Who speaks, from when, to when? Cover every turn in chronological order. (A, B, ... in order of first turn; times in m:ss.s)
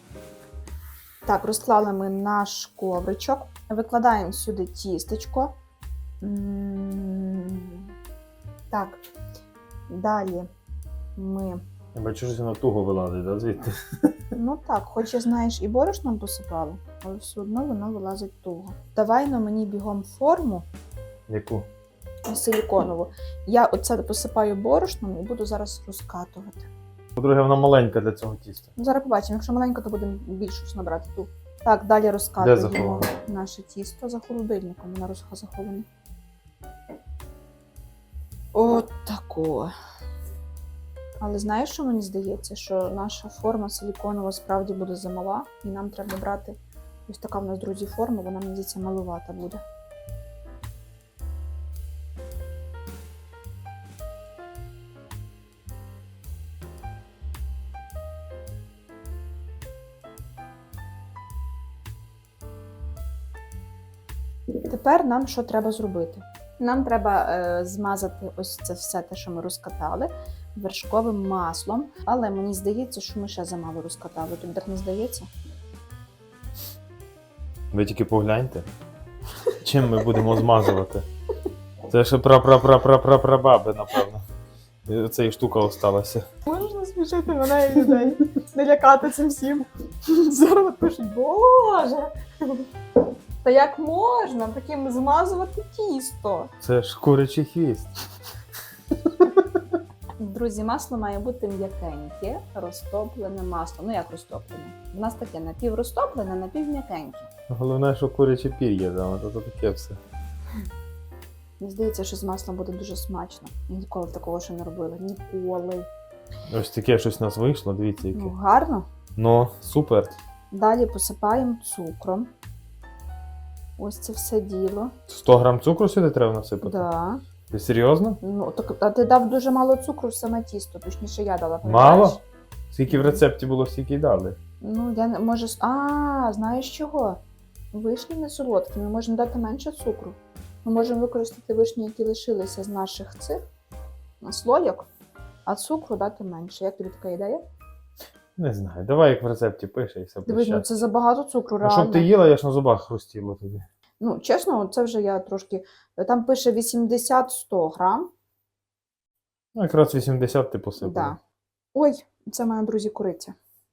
0:01.3-0:05.6 A
0:06.2-0:07.9 A
0:08.7-0:09.0 A
0:09.9-0:10.5 A
0:11.2-0:11.6 A
0:11.9-0:14.1 B
0:14.3-0:20.7 A
0:21.3-0:21.7 B
0:22.3-0:26.7 A
0:27.2-0:28.7 B
0:28.8-0:35.9 A
0:32.4-0:33.1 B
0:38.5-0:39.7 A
0:41.2-0:49.6 A
1:04.6-1:15.3 A
1:17.7-1:18.7 B
1:19.6-1:21.1 B
1:21.9-1:24.2 B
1:24.9-1:26.3 B
1:26.4-1:32.7 A
1:33.4-1:36.5 A
1:36.6-1:37.9 B
1:39.1-1:39.6 B
1:40.2-1:47.3 A
1:47.5-1:50.0 B
1:51.6-1:55.9 A
1:56.5-1:58.3 B
1:58.1-1:58.9 A
1:59.2-2:00.1 B
2:00.5-2:02.3 A
2:03.8-2:04.9 A
2:05.1-2:06.9 B
2:06.6-2:07.2 A
2:07.5-2:08.2 B
2:08.2-2:12.2 A
2:11.6-2:12.2 B
2:12.7-2:14.4 B
2:12.9-2:13.2 A
2:14.6-2:17.2 A
2:17.7-2:23.4 A
2:24.2-2:24.9 A
2:25.5-2:27.4 A
2:28.4-2:30.7 B
2:30.3-2:32.1 A
2:31.6-2:33.7 B
2:34.0-2:38.1 A
2:39.6-2:41.2 B
2:40.8-2:41.2 A
2:41.7-2:43.3 A